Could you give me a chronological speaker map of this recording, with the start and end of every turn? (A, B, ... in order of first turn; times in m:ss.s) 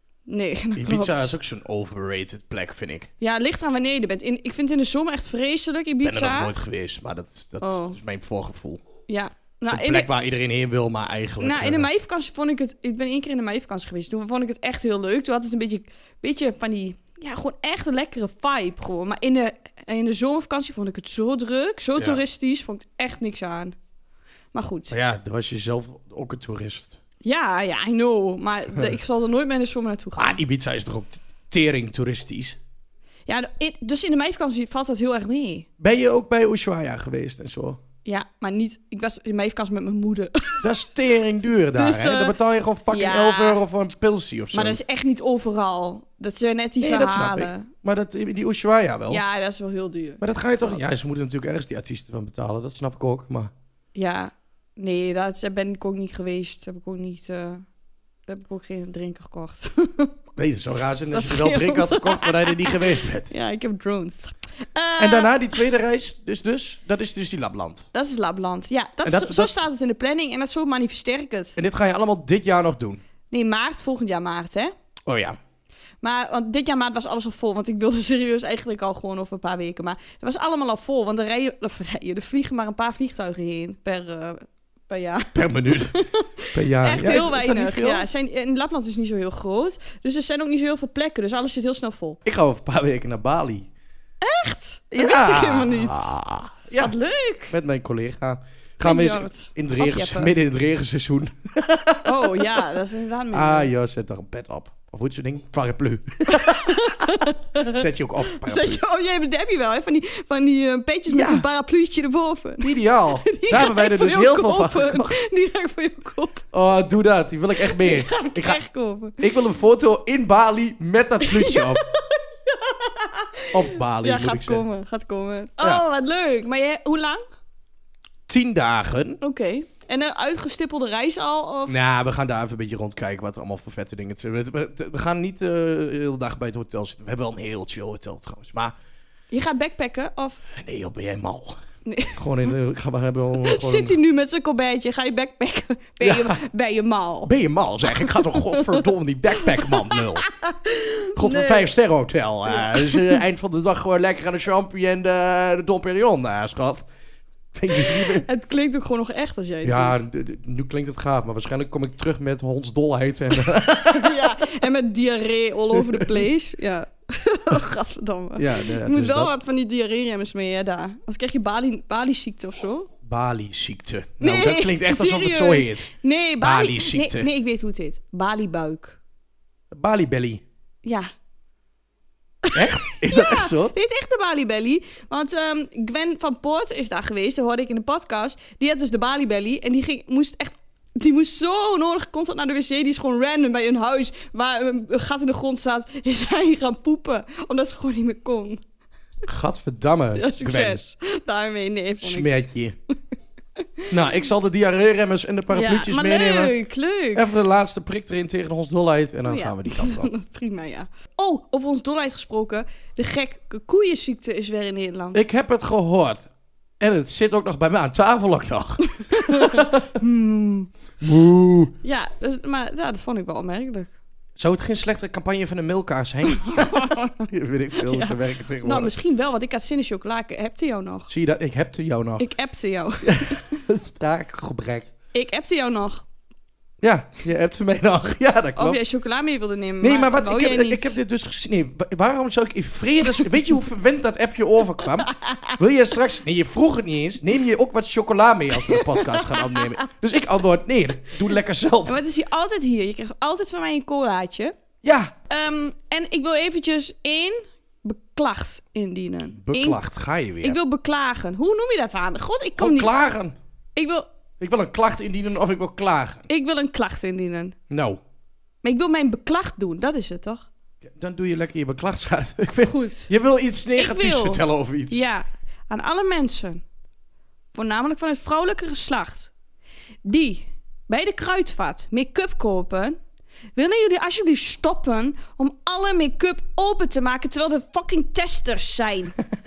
0:00.3-0:01.3 A
0:00.8-0:03.1 B
0:03.2-0:06.5 A
0:06.0-0:08.8 B
0:07.6-0:08.0 A
0:09.1-0:10.1 A
0:09.7-0:11.9 B
0:11.4-0:23.8 A
0:24.5-0:25.0 A
0:24.9-0:27.0 B
0:27.2-0:30.4 A
0:30.2-0:32.6 B
0:33.3-0:35.7 A
0:35.8-0:37.8 B
0:38.0-0:40.7 A
0:40.6-0:44.8 B
0:41.8-0:42.4 A
0:42.9-0:43.6 A
0:44.5-0:47.7 A
0:46.8-0:49.2 B
0:49.1-0:50.8 A
0:50.2-0:53.5 B
0:54.0-0:57.6 A
0:58.3-1:00.1 A
1:00.4-1:03.3 B
1:01.1-1:05.3 A
1:05.0-1:07.9 B
1:07.9-1:11.6 A
1:09.0-1:09.5 B
1:11.6-1:13.0 B
1:13.3-1:14.7 A
1:15.1-1:15.4 B
1:16.0-1:32.2 A
1:25.4-1:26.0 B
1:26.5-1:28.0 B
1:32.2-1:33.7 B
1:34.2-1:36.2 A
1:34.9-1:36.9 B
1:36.8-1:37.5 A
1:37.5-1:42.5 B
1:38.8-1:40.3 A
1:42.0-1:43.7 A
1:43.3-1:48.8 B
1:46.3-1:52.7 A
1:51.1-1:51.5 B
1:52.6-1:55.2 B
1:53.2-1:56.4 A
1:56.5-1:58.6 B
1:57.6-1:59.2 A
1:59.2-2:01.8 B
2:01.2-2:07.2 A
2:03.5-2:04.6 B
2:08.3-2:09.2 B
2:09.2-2:11.8 A
2:11.7-2:18.7 B
2:19.3-2:20.4 A
2:20.5-2:21.6 B
2:21.9-2:22.3 A
2:22.2-2:24.0 B
2:23.4-2:27.3 A
2:26.0-2:26.4 B
2:27.2-2:30.3 B
2:27.9-2:28.8 A
2:29.6-2:31.7 A
2:31.2-2:36.9 B
2:32.5-2:33.2 A
2:37.5-2:38.3 B
2:37.7-2:40.0 A
2:39.6-2:44.2 B
2:43.9-2:52.9 A
2:45.7-2:46.3 B
2:48.4-2:49.3 B
2:53.0-2:55.9 B
2:54.2-2:59.0 A
2:56.4-2:57.3 B
2:59.7-3:00.4 B
3:02.5-3:18.6 A
3:02.5-3:03.7 B
3:19.3-3:20.8 B
3:20.2-3:22.3 A
3:22.0-3:22.8 B
3:23.9-3:26.5 B
3:25.5-3:27.3 A
3:27.2-3:30.1 B
3:29.3-3:35.2 A
3:35.1-3:36.3 B
3:36.8-3:40.0 B
3:39.0-3:40.7 A
3:41.0-3:41.7 B
3:41.8-3:43.9 A
3:44.4-3:48.9 B
3:46.4-3:47.2 A
3:47.8-3:51.1 A
3:51.1-3:52.3 B
3:52.2-3:53.6 A
3:53.0-3:54.9 B
3:55.1-3:56.1 A
3:56.8-3:58.8 B
3:58.6-4:01.0 A
3:59.8-4:12.0 B
4:05.0-4:05.6 A
4:08.6-4:09.7 A
4:11.9-4:14.5 A
4:14.8-4:15.1 B
4:15.3-4:19.8 A
4:19.3-4:20.6 B
4:20.4-4:22.9 A
4:22.6-4:23.4 B
4:23.8-4:24.1 A
4:24.4-4:26.3 B
4:26.3-4:27.6 A
4:27.7-4:28.0 B
4:28.6-4:30.5 A
4:30.8-4:35.0 B
4:32.7-4:33.1 A
4:33.8-4:36.6 A
4:37.5-4:39.3 A
4:40.0-4:43.0 A
4:43.6-4:49.2 A